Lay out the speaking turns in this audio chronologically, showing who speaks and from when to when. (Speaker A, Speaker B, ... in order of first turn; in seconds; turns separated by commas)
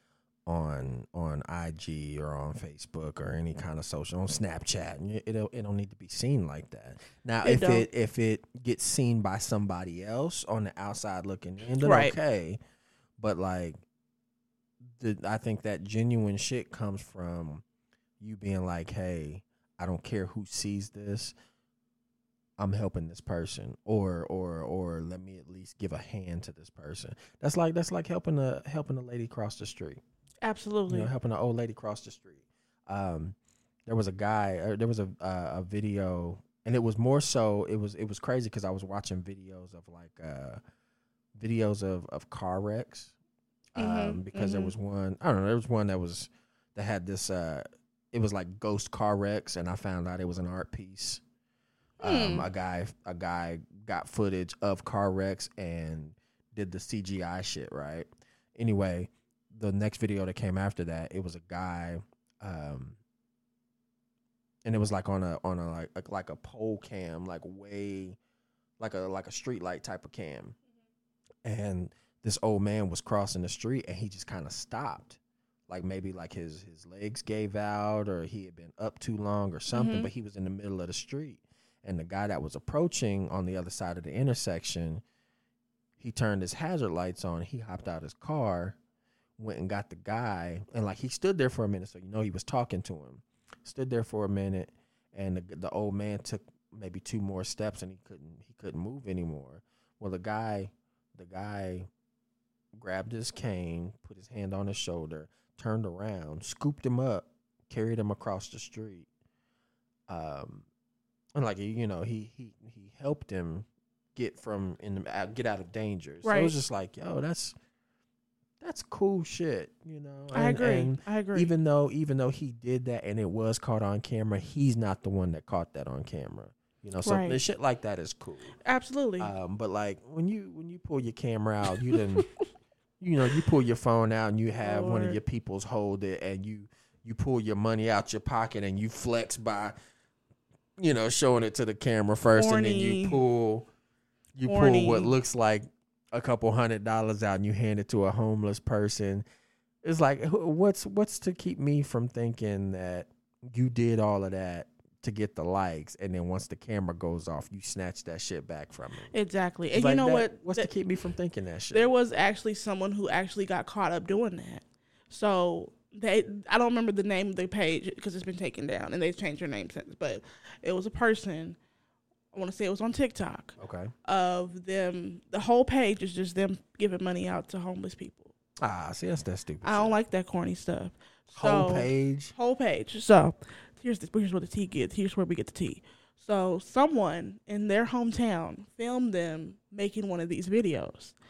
Speaker A: 0.5-12.6, Speaker B: 7.4-7.9, Speaker B: 11.8-12.2, Speaker A: 13.2-13.8, Speaker A: 14.9-17.6, Speaker A: 18.2-21.3, Speaker A: 22.6-30.0, Speaker B: 30.4-31.1, Speaker A: 30.9-33.4, Speaker A: 33.9-40.6, Speaker A: 41.4-43.1, Speaker A: 43.8-51.2, Speaker B: 43.8-44.7, Speaker A: 52.0-63.0, Speaker B: 52.0-52.5, Speaker A: 64.7-68.2, Speaker A: 68.8-70.6, Speaker A: 71.4-85.0, Speaker B: 79.7-80.1, Speaker A: 86.0-88.8, Speaker A: 89.4-101.9, Speaker A: 102.8-109.1, Speaker A: 110.1-110.7, Speaker A: 111.4-117.5, Speaker B: 116.2-116.6, Speaker A: 118.6-128.5, Speaker B: 120.3-121.5, Speaker B: 127.0-127.4, Speaker B: 128.7-129.3, Speaker A: 129.2-132.3, Speaker B: 131.9-132.3, Speaker A: 133.0-139.8, Speaker B: 134.6-135.2, Speaker A: 140.8-143.7, Speaker B: 142.3-143.2, Speaker A: 144.3-149.2, Speaker B: 144.5-145.1, Speaker A: 149.8-159.1, Speaker B: 159.1-160.7, Speaker A: 159.7-161.9, Speaker B: 161.7-171.6, Speaker B: 172.3-178.3, Speaker A: 173.6-173.9, Speaker A: 178.6-180.0, Speaker B: 179.6-191.2, Speaker A: 181.3-182.3